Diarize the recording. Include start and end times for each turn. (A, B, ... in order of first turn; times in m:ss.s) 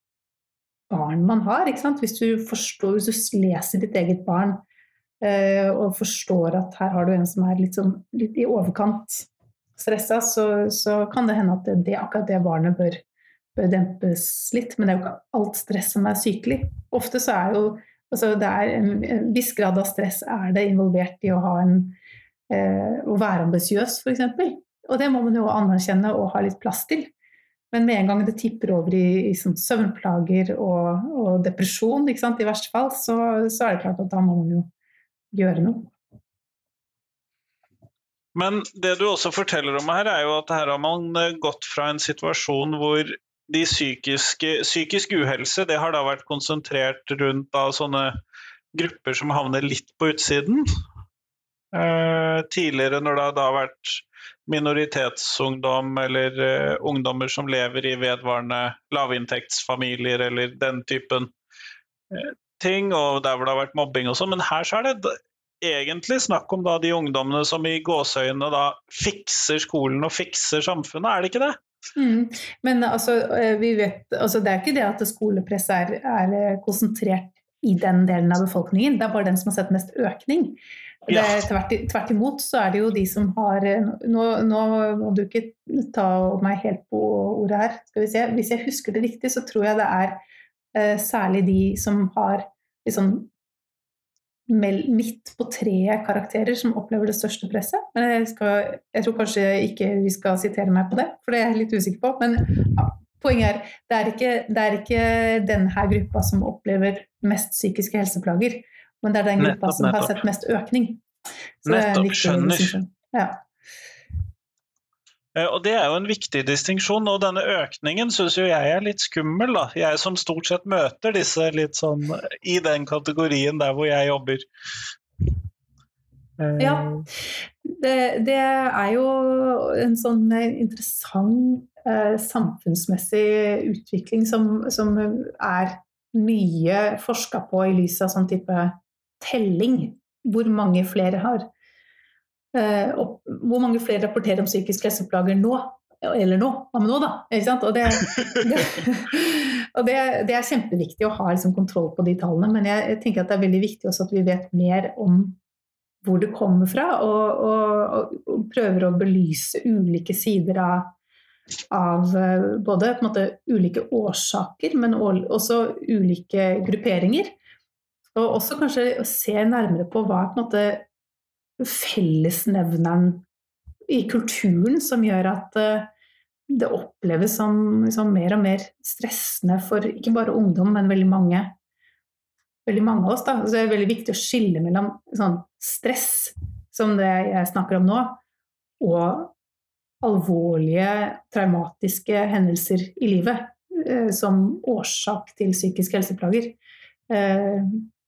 0:00.9-0:04.6 A
0:05.2-0:13.0 A
0:13.6-0:22.0 A
0:22.5-0:27.1 A
0:27.7-0:34.7 A
0:35.3-0:35.9 A
0:38.4-0:48.1 B
0:48.7-0:50.7 B
0:51.7-1:01.3 B
1:02.1-1:11.6 B
1:12.0-1:30.2 A
1:21.1-1:21.4 B
1:30.7-1:33.3 A
1:34.5-1:51.0 A
1:49.4-1:50.1 B
1:51.6-1:53.4 A
1:51.7-1:52.8 B
1:55.4-2:04.4 B
2:06.4-2:07.1 B
2:06.6-2:06.9 A
2:07.6-2:21.5 A
2:22.5-2:35.4 A
2:36.0-2:40.9 A
2:41.7-2:47.3 A
2:48.1-2:50.9 A
2:51.6-2:53.3 A
2:53.9-2:55.9 A
2:56.5-3:01.5 A
3:02.7-3:08.2 A
3:08.8-3:09.4 A
3:10.0-3:16.6 A
3:17.1-3:17.9 A